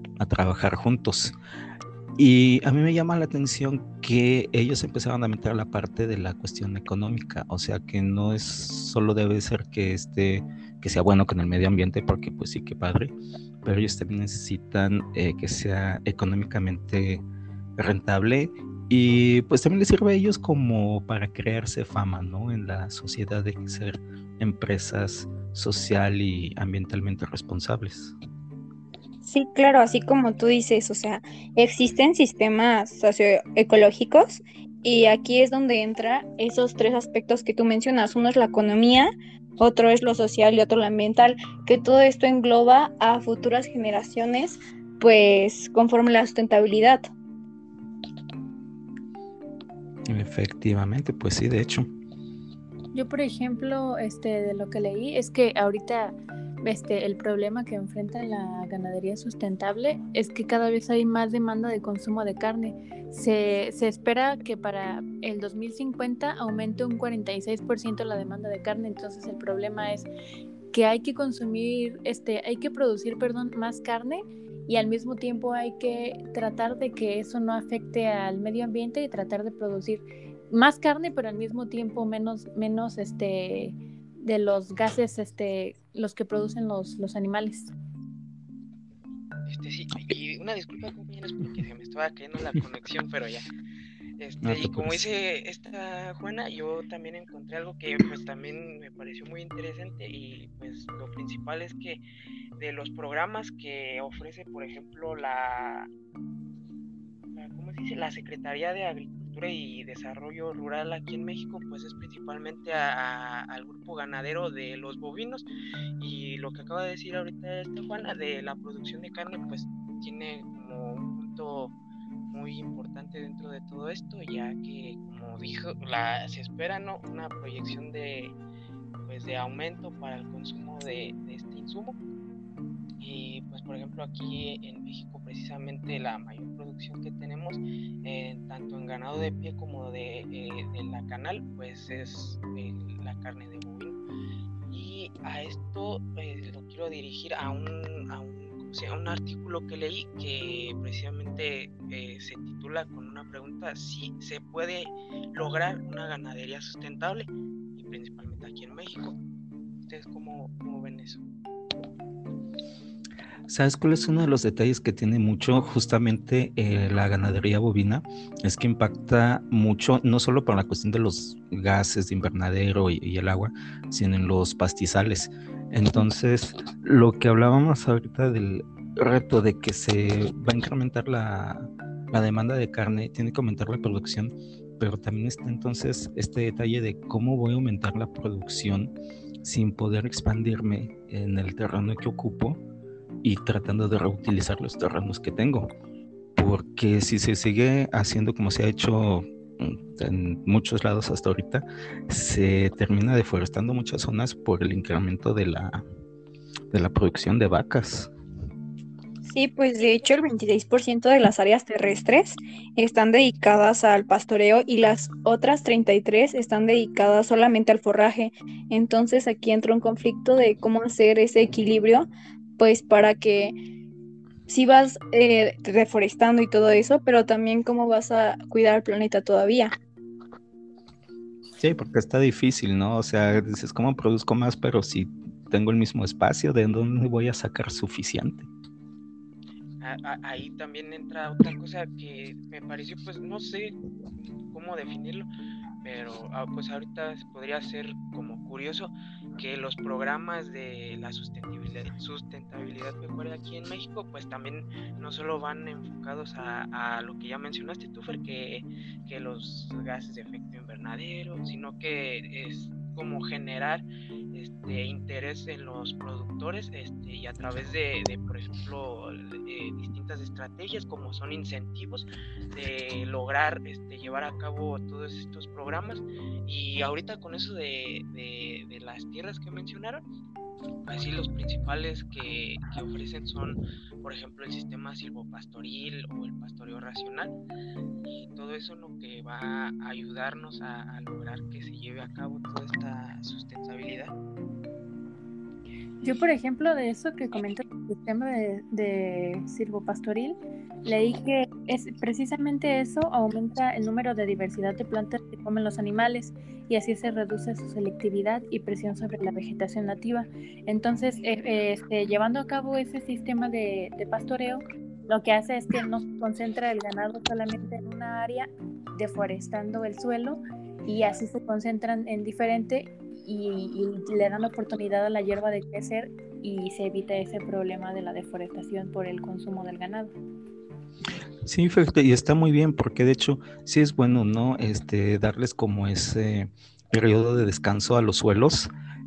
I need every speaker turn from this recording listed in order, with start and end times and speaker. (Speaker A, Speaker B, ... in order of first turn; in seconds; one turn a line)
Speaker A: 0.2-1.3
Speaker A: 2.2-17.2
Speaker A: 17.8-28.1
Speaker B: 29.2-47.1
Speaker A: 50.1-51.9
Speaker C: 52.9-70.1
Speaker C: 70.7-87.7
Speaker D: 89.5-93.5
Speaker D: 94.2-102.0
Speaker A: 94.4-95.0
Speaker D: 102.6-105.9
Speaker D: 107.3-115.4
Speaker D: 116.0-121.7
Speaker D: 122.3-128.3
Speaker D: 129.1-132.0
Speaker D: 133.0-144.0
Speaker D: 144.7-159.2
Speaker D: 159.8-161.2
Speaker A: 163.5-192.6
Speaker A: 193.2-195.7
Speaker A: 196.3-205.8
Speaker A: 206.7-208.1
Speaker B: 209.2-223.5
Speaker B: 224.5-229.7
Speaker A: 231.6-238.5
Speaker D: 239.8-243.8
Speaker D: 244.5-245.3
Speaker D: 245.8-280.0
Speaker D: 280.8-287.3
Speaker D: 288.0-294.1
Speaker C: 296.0-330.1
Speaker A: 331.4-338.7